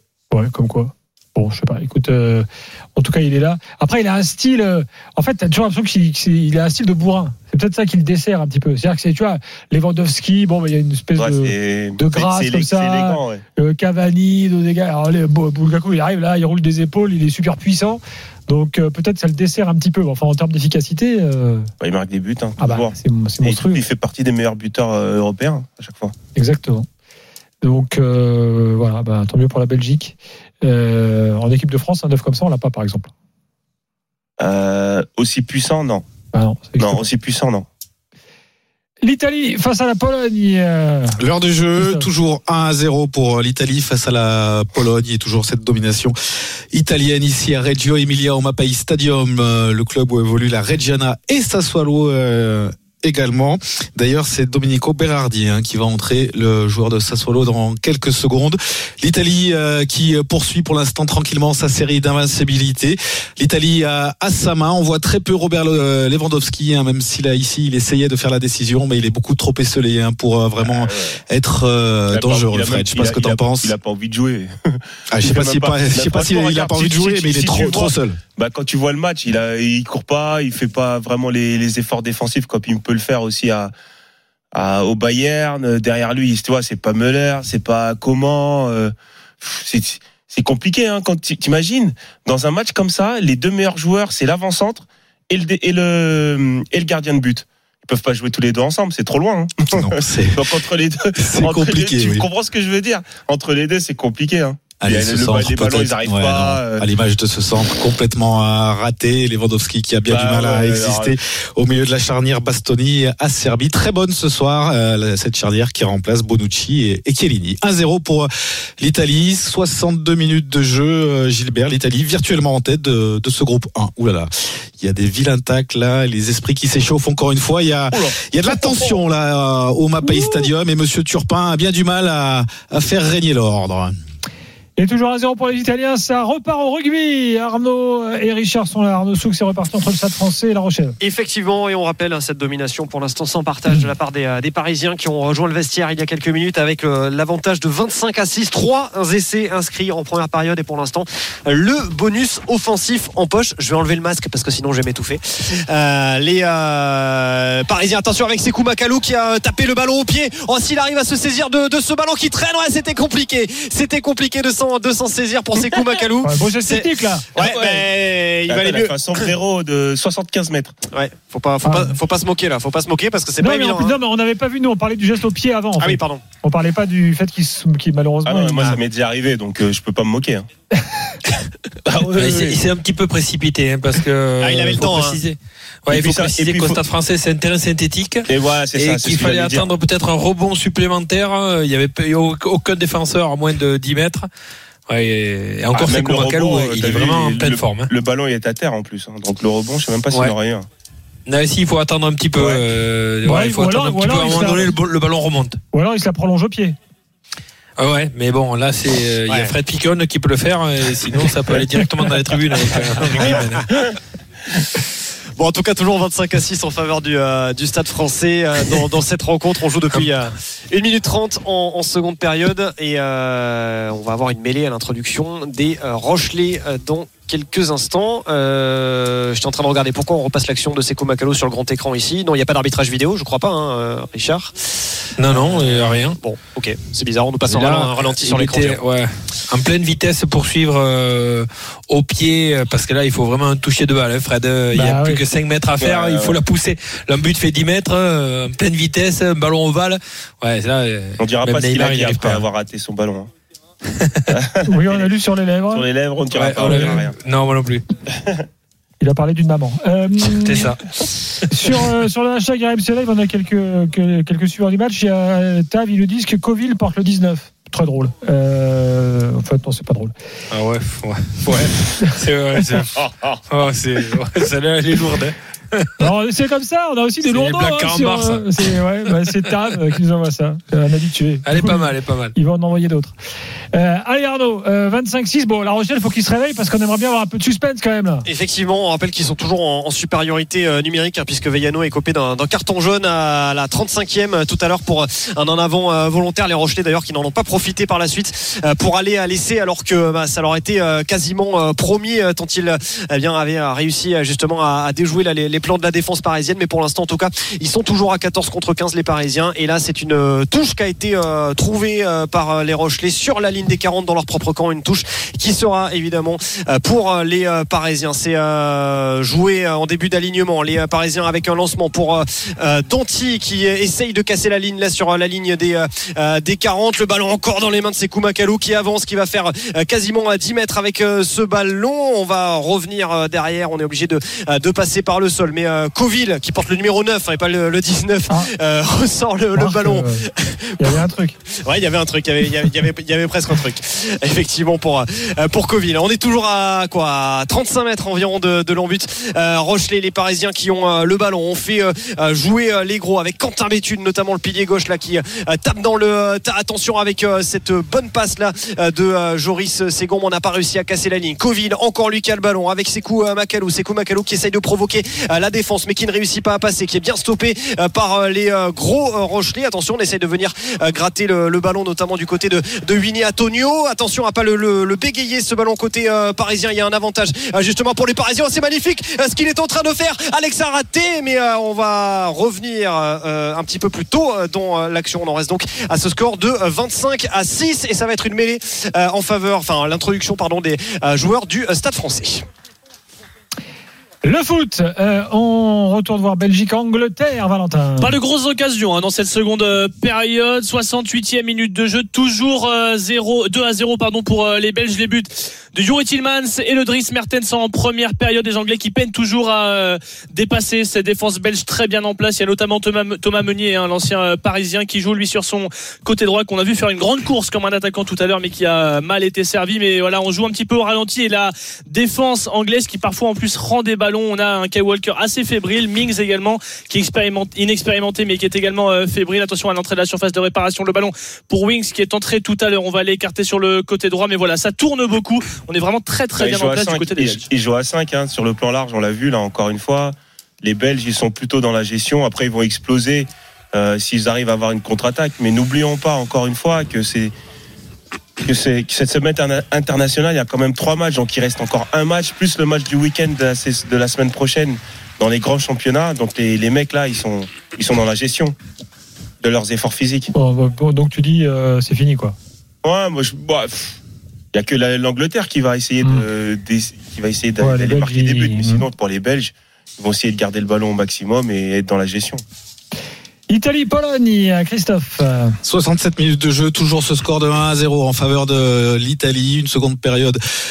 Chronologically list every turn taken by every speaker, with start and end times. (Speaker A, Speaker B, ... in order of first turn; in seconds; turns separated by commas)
Speaker A: 0.3-21.7, Speaker B: 11.2-13.4, Speaker B: 21.8-26.1, Speaker A: 22.6-23.8, Speaker A: 26.3-26.9, Speaker A: 27.6-33.1, Speaker B: 34.4-36.0, Speaker A: 36.3-37.0, Speaker B: 36.8-37.6, Speaker A: 39.0-41.2, Speaker C: 41.2-46.1, Speaker A: 41.8-42.0, Speaker C: 46.7-73.7, Speaker B: 70.7-71.2, Speaker B: 72.1-83.7, Speaker C: 75.1-78.2, Speaker B: 84.5-106.8, Speaker C: 99.7-100.5, Speaker C: 101.2-102.2, Speaker C: 104.8-133.9, Speaker B: 110.0-111.2, Speaker A: 130.0-130.5, Speaker A: 134.8-141.0, Speaker D: 141.0-169.3, Speaker A: 166.2-167.3, Speaker B: 167.3-167.9, Speaker B: 168.5-170.7, Speaker D: 170.9-173.9, Speaker A: 171.6-171.9, Speaker A: 173.4-178.8, Speaker D: 175.8-176.2, Speaker B: 178.2-180.5, Speaker B: 181.8-182.6, Speaker E: 182.1-194.2, Speaker D: 184.4-185.2, Speaker B: 185.9-186.8, Speaker B: 188.3-189.7, Speaker E: 194.9-197.9, Speaker B: 195.7-200.7, Speaker E: 201.3-205.6, Speaker B: 202.3-202.6, Speaker A: 203.2-204.7, Speaker A: 205.7-206.8, Speaker E: 207.8-213.7, Speaker D: 209.3-209.5, Speaker D: 211.1-211.6, Speaker D: 212.5-213.6, Speaker D: 215.4-238.8, Speaker E: 235.2-236.2, Speaker E: 237.5-252.4, Speaker A: 244.7-245.2, Speaker B: 245.8-246.4, Speaker B: 251.2-253.3, Speaker E: 253.9-254.3, Speaker B: 254.3-255.1, Speaker A: 254.7-255.8, Speaker B: 255.7-257.1, Speaker E: 256.3-257.8, Speaker A: 256.6-257.0, Speaker A: 259.0-260.7, Speaker E: 260.4-260.9, Speaker A: 261.5-270.1, Speaker E: 270.5-273.0, Speaker B: 273.0-273.4, Speaker E: 273.5-276.1, Speaker A: 276.0-283.1, Speaker E: 277.3-278.6, Speaker E: 281.4-282.3, Speaker A: 283.7-288.2, Speaker D: 288.2-340.9, Speaker A: 339.5-340.2, Speaker A: 340.8-341.4, Speaker D: 341.6-392.4, Speaker A: 394.2-398.1, Speaker F: 398.0-437.4, Speaker B: 436.4-447.3, Speaker B: 448.4-458.5, Speaker B: 459.4-460.3, Speaker A: 460.3-462.3, Speaker B: 462.8-464.0, Speaker B: 464.5-472.4, Speaker A: 467.6-468.8, Speaker A: 473.5-475.6, Speaker C: 475.6-480.4